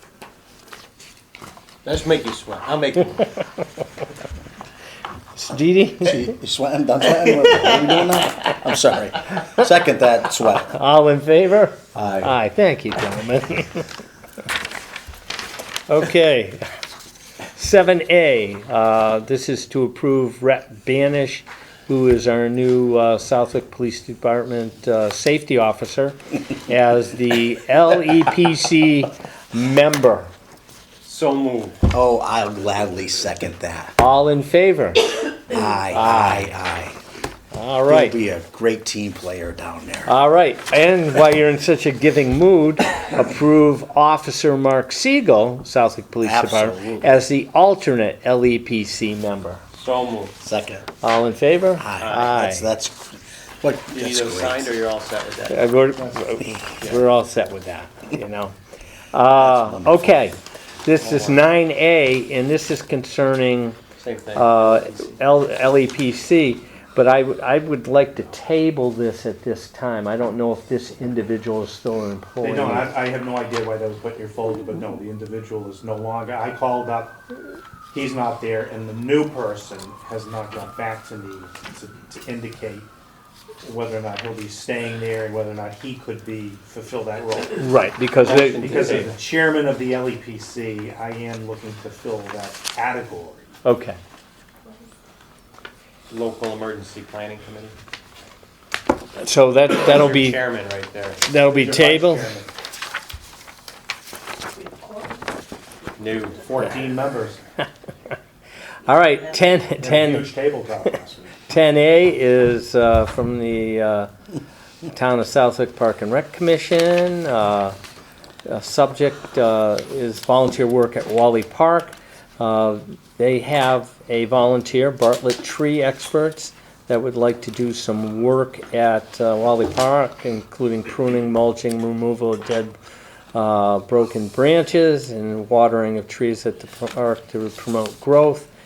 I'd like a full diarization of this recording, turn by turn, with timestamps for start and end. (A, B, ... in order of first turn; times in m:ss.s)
0:01.8-0:03.3 A
0:05.3-0:06.3 B
0:06.0-0:10.7 C
0:10.6-0:13.9 B
0:11.9-0:12.3 C
0:15.9-0:16.6 B
0:17.5-0:30.3 B
0:31.0-0:31.8 A
0:31.9-0:34.0 C
0:34.0-0:36.5 B
0:35.5-0:37.0 C
0:37.5-0:38.2 B
0:37.9-0:40.1 C
0:40.0-0:49.6 B
0:46.2-0:47.2 C
0:49.7-0:50.3 A
0:50.4-0:50.9 C
0:51.0-0:52.7 B
0:51.8-0:54.7 C
0:52.0-0:52.3 A
0:53.9-0:55.7 A
0:55.5-0:58.6 B
0:56.0-0:56.4 D
0:59.1-1:03.8 B
0:59.3-1:00.1 C
1:01.0-1:01.4 A
1:04.0-1:05.2 A
1:04.3-1:12.9 B
1:12.4-1:17.2 D
1:17.9-1:22.9 D
1:23.6-1:33.5 D
1:27.5-1:29.1 B
1:28.2-1:29.1 A
1:33.6-1:34.0 B
1:36.1-1:37.8 A
1:39.1-1:40.4 B
1:39.8-1:41.2 A
1:41.3-1:42.3 B
1:41.5-1:42.5 D
1:46.0-1:46.6 A
1:46.4-1:47.4 D
1:48.8-1:50.3 B
1:49.8-1:51.4 D
1:51.5-1:54.1 B
1:54.8-1:57.8 B
1:58.4-2:12.8 B
2:13.3-2:18.5 B